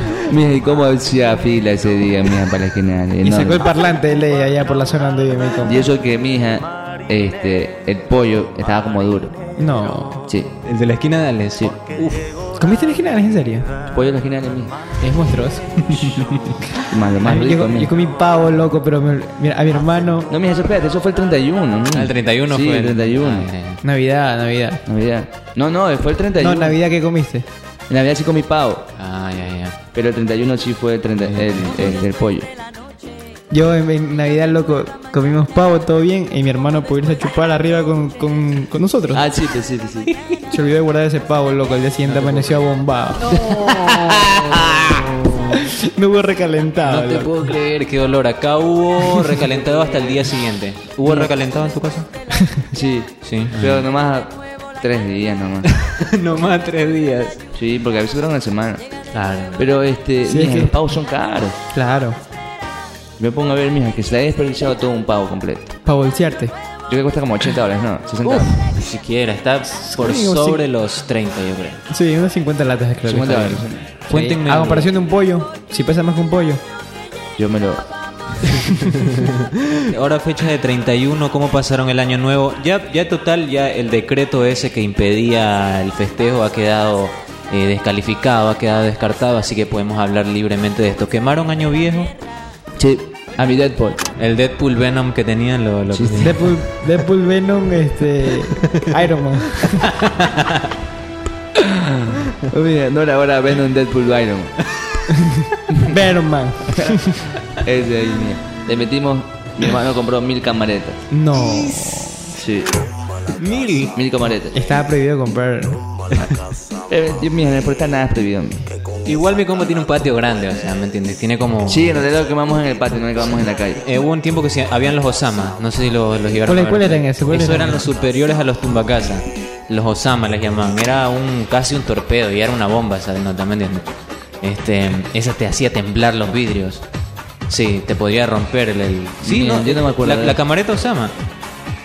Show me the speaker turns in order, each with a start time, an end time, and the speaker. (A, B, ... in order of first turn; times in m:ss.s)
0:00.2-0:03.6 A
0:03.2-0:05.9 B
0:05.6-0:09.3 A
0:09.6-0:10.2 B
0:10.6-0:12.3 C
0:12.6-0:13.7 B
0:13.9-0:14.7 A
0:15.0-0:16.6 B
0:15.8-0:16.3 C
0:16.9-0:17.9 A
0:17.2-0:20.3 B
0:20.3-0:23.5 A
0:21.9-0:23.8 C
0:23.8-0:24.8 B
0:24.8-0:26.8 A
0:26.4-0:27.4 B
0:27.9-0:28.9 A
0:29.0-0:29.8 C
0:29.9-0:32.5 A
0:31.2-0:32.1 C
0:33.5-0:39.3 B
0:39.1-0:40.1 A
0:40.5-0:43.4 B
0:42.0-0:42.7 C
0:43.2-0:45.6 C
0:43.3-0:44.8 A
0:45.5-0:47.3 B
0:46.8-0:52.1 C
0:52.7-0:55.7 A
0:53.2-0:53.8 C
0:55.7-0:57.4 C
0:57.5-0:58.8 A
0:59.1-0:59.6 C
0:59.6-1:01.6 A
1:00.2-1:00.7 B
1:01.7-1:02.2 B
1:03.2-1:05.7 A
1:05.8-1:06.5 B
1:06.9-1:08.6 A
1:08.2-1:11.8 C
1:09.9-1:10.6 B
1:11.9-1:16.6 B
1:13.0-1:13.9 A
1:14.1-1:14.9 C
1:17.4-1:17.8 A
1:18.8-1:32.1 C
1:32.8-1:34.0 A
1:34.2-1:36.5 C
1:35.9-1:36.5 A
1:36.2-1:39.9 B
1:38.6-1:38.9 C
1:39.6-1:40.7 C
1:41.6-1:44.6 A
1:45.8-1:47.3 B
1:46.7-1:46.9 A
1:47.4-1:51.0 A
1:51.1-1:52.3 B
1:52.3-1:52.8 A
1:53.3-1:53.9 C
1:53.9-1:54.5 A
1:54.5-1:55.8 B
1:56.1-1:56.4 C
1:56.9-1:58.7 A
1:59.0-2:02.0 C
2:01.7-2:03.8 A
2:03.8-2:13.9 C
2:06.5-2:07.9 B
2:14.4-2:16.8 C
2:17.5-2:21.1 C
2:19.2-2:20.4 A